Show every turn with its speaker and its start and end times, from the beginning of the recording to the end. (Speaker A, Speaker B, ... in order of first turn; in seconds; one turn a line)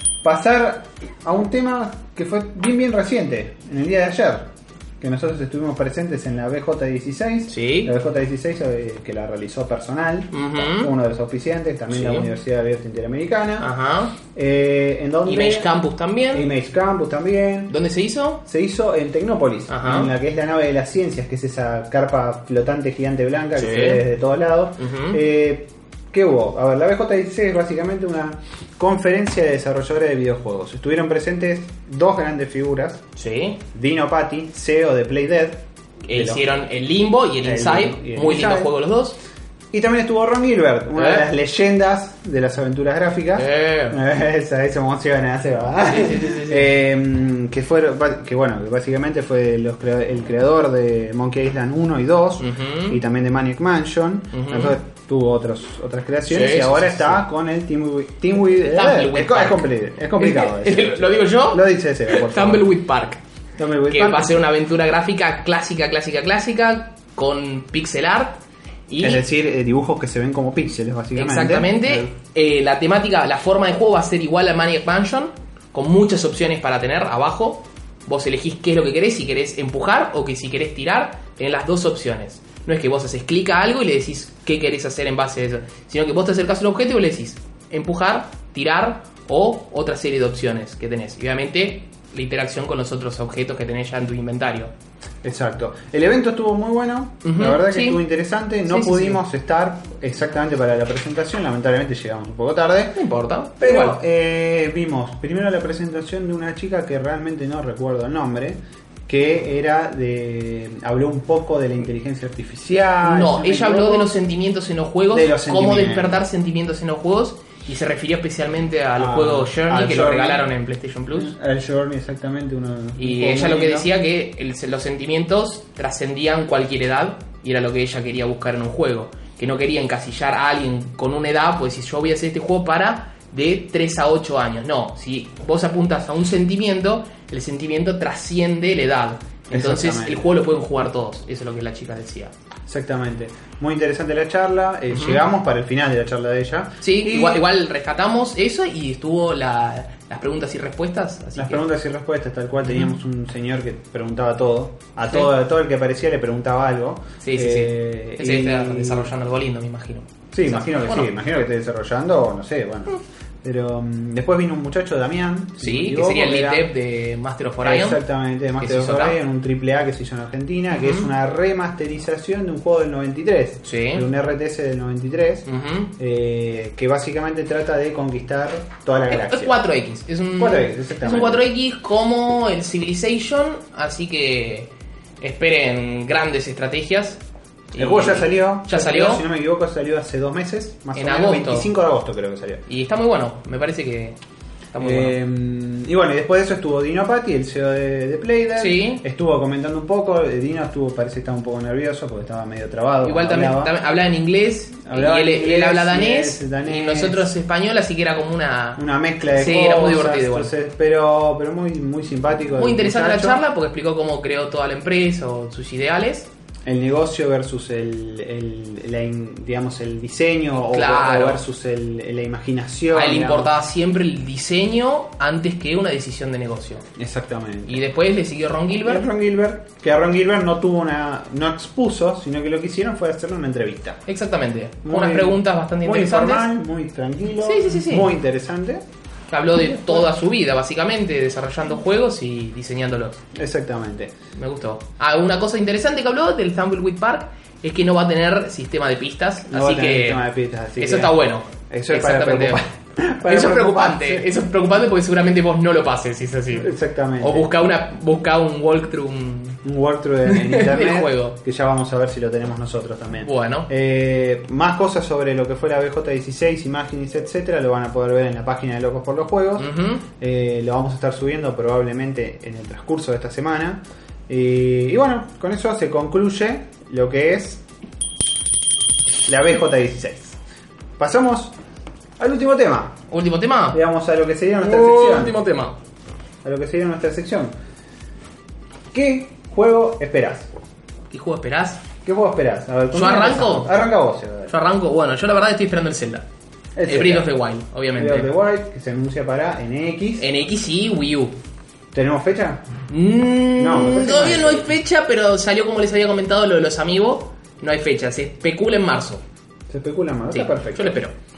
Speaker A: 0.2-13.7
Speaker B: 7.5-7.9
Speaker B: 10.3-10.9
Speaker B: 11.9-12.3
Speaker B: 13.6-14.1
Speaker A: 14.3-15.7
Speaker B: 15.3-16.5
Speaker A: 16.3-17.7
Speaker B: 17.7-18.4
Speaker A: 18.4-33.0
Speaker B: 19.7-20.1
Speaker B: 23.6-24.0
Speaker B: 24.8-25.2
Speaker B: 33.2-33.6
Speaker A: 33.7-36.4
Speaker B: 36.1-39.2
Speaker A: 37.4-38.7
Speaker A: 39.7-62.7
Speaker B: 41.0-41.3
Speaker B: 43.4-44.0
Speaker B: 45.9-46.7
Speaker B: 52.4-53.0
Speaker B: 54.3-54.7
Speaker B: 56.3-57.2
Speaker B: 58.6-63.2
Speaker A: 63.6-64.3
Speaker B: 63.9-69.2
Speaker A: 69.0-72.1
Speaker B: 71.1-94.7
Speaker A: 95.2-103.0
Speaker B: 97.2-98.0
Speaker B: 98.7-99.2
Speaker B: 103.0-104.0
Speaker A: 103.6-114.1
Speaker B: 113.0-121.3
Speaker A: 115.1-116.2
Speaker A: 119.0-120.5
Speaker A: 121.1-123.9
Speaker B: 123.0-142.3
Speaker A: 139.5-140.3
Speaker A: 142.7-147.4
Speaker B: 144.9-145.2
Speaker B: 146.8-151.6
Speaker A: 151.4-159.1
Speaker B: 157.2-161.1
Speaker A: 160.3-166.7
Speaker B: 165.6-168.0
Speaker A: 167.6-175.4
Speaker B: 168.6-169.2
Speaker B: 170.8-171.1
Speaker B: 173.6-174.1
Speaker B: 175.5-175.9
Speaker A: 176.0-179.6
Speaker B: 179.1-187.2
Speaker A: 180.4-181.4
Speaker B: 187.7-189.2
Speaker A: 187.8-192.6
Speaker B: 190.9-191.7
Speaker B: 192.7-194.2
Speaker B: 194.7-195.2
Speaker A: 194.8-203.7
Speaker B: 198.6-199.0
Speaker B: 203.0-210.5
Speaker A: 204.9-207.3
Speaker A: 208.8-213.4
Speaker B: 212.6-216.3
Speaker A: 216.7-223.5
Speaker B: 220.6-221.4
Speaker B: 222.9-226.8
Speaker A: 227.0-227.8
Speaker B: 227.7-229.1
Speaker A: 228.8-234.0
Speaker B: 234.1-236.5
Speaker A: 234.8-238.8
Speaker B: 237.4-238.1
Speaker B: 239.3-243.2
Speaker A: 239.6-240.1
Speaker A: 243.3-244.1
Speaker B: 244.3-250.2
Speaker A: 249.5-251.2
Speaker B: 250.8-252.6
Speaker A: 251.7-254.3
Speaker B: 253.2-259.6
Speaker A: 256.6-257.5
Speaker A: 259.6-277.6
Speaker B: 260.3-261.4
Speaker B: 263.2-263.7
Speaker B: 269.6-270.0
Speaker A: 279.3-280.4
Speaker A: 281.0-281.6
Speaker A: 282.2-283.0
Speaker B: 283.1-283.8
Speaker A: 283.7-285.4
Speaker B: 284.6-285.8
Speaker A: 286.4-287.5
Speaker A: 288.9-290.5
Speaker B: 291.1-291.8
Speaker A: 292.0-294.5
Speaker B: 292.9-293.7
Speaker B: 294.5-296.3
Speaker A: 296.8-297.3
Speaker B: 296.9-298.3
Speaker A: 297.9-300.3
Speaker B: 300.2-301.4
Speaker A: 301.9-302.6
Speaker B: 302.9-309.2
Speaker A: 303.6-304.7
Speaker A: 309.7-311.0
Speaker B: 310.3-311.1